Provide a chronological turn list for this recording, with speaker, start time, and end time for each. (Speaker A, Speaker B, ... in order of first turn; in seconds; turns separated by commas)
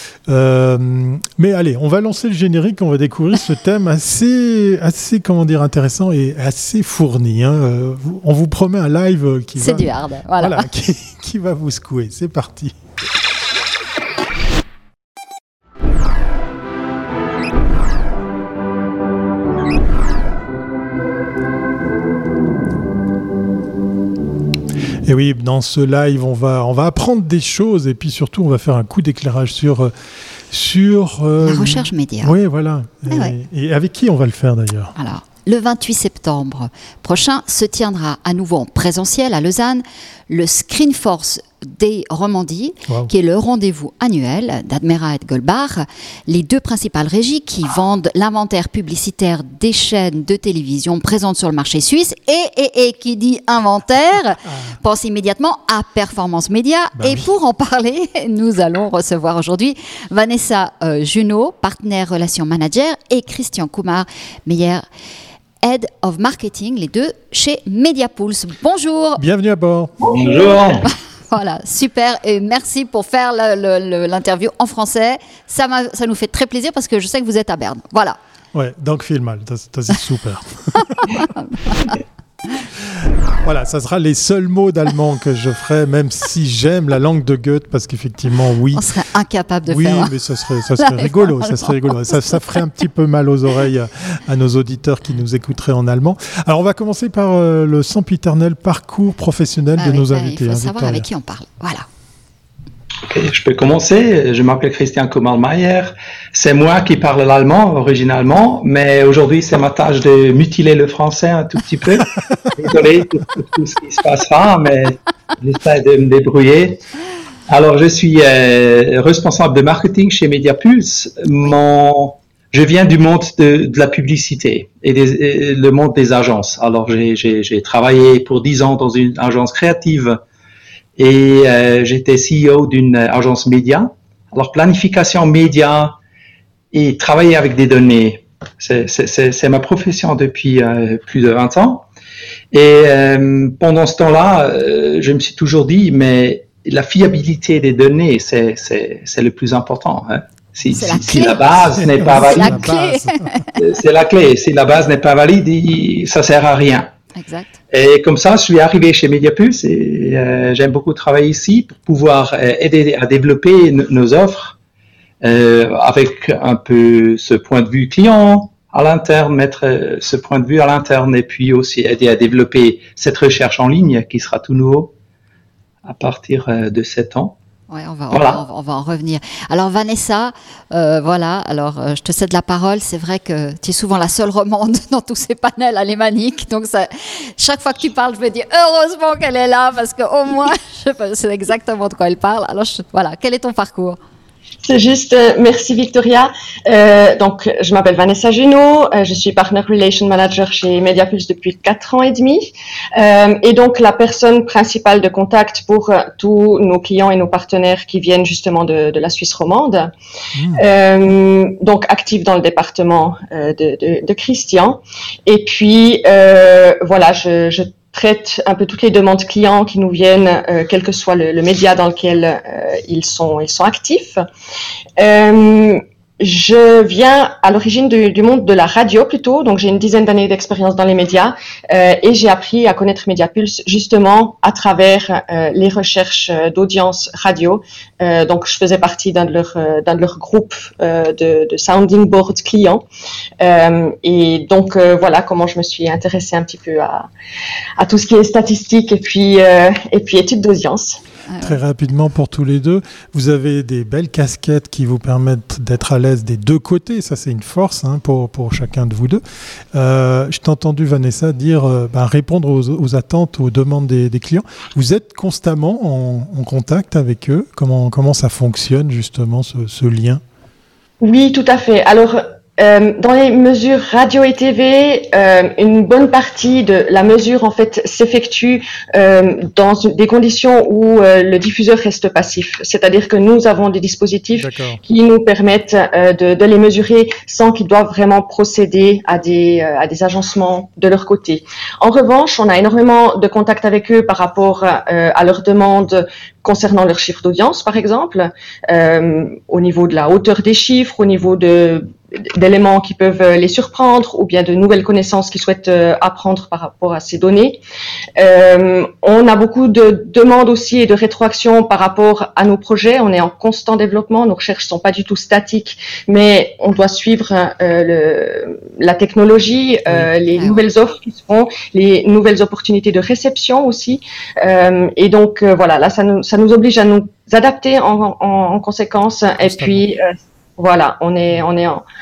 Speaker A: 0.3-12.8, Speaker B: 9.6-10.7, Speaker A: 25.1-29.9, Speaker A: 30.5-34.9, Speaker B: 31.4-32.3, Speaker B: 35.0-64.8, Speaker A: 54.5-54.8, Speaker A: 57.0-57.3, Speaker B: 65.6-69.2, Speaker A: 69.2-70.0, Speaker C: 70.0-70.9, Speaker B: 70.8-78.2, Speaker A: 78.5-81.2, Speaker B: 81.1-82.0, Speaker A: 83.4-88.8, Speaker B: 88.7-90.1, Speaker A: 89.7-101.1, Speaker B: 90.8-92.6, Speaker B: 99.8-101.9, Speaker C: 103.1-116.8, Speaker C: 117.5-130.2, Speaker C: 131.0-136.0, Speaker C: 136.7-141.9, Speaker C: 142.5-152.6, Speaker B: 150.7-153.5, Speaker A: 151.8-153.5, Speaker C: 153.6-156.9, Speaker B: 157.2-157.5, Speaker C: 157.7-164.6, Speaker C: 165.2-174.9, Speaker C: 175.8-177.4, Speaker B: 177.7-194.0, Speaker C: 178.1-178.4, Speaker D: 194.6-209.9, Speaker A: 210.3-210.6, Speaker D: 210.6-224.2, Speaker D: 225.0-242.8, Speaker D: 243.4-247.1, Speaker D: 247.8-251.0, Speaker B: 251.3-251.6, Speaker A: 251.4-259.2, Speaker A: 259.7-270.2, Speaker D: 271.0-307.6, Speaker A: 284.4-284.8, Speaker D: 308.2-331.8, Speaker B: 320.3-320.6, Speaker A: 329.4-329.8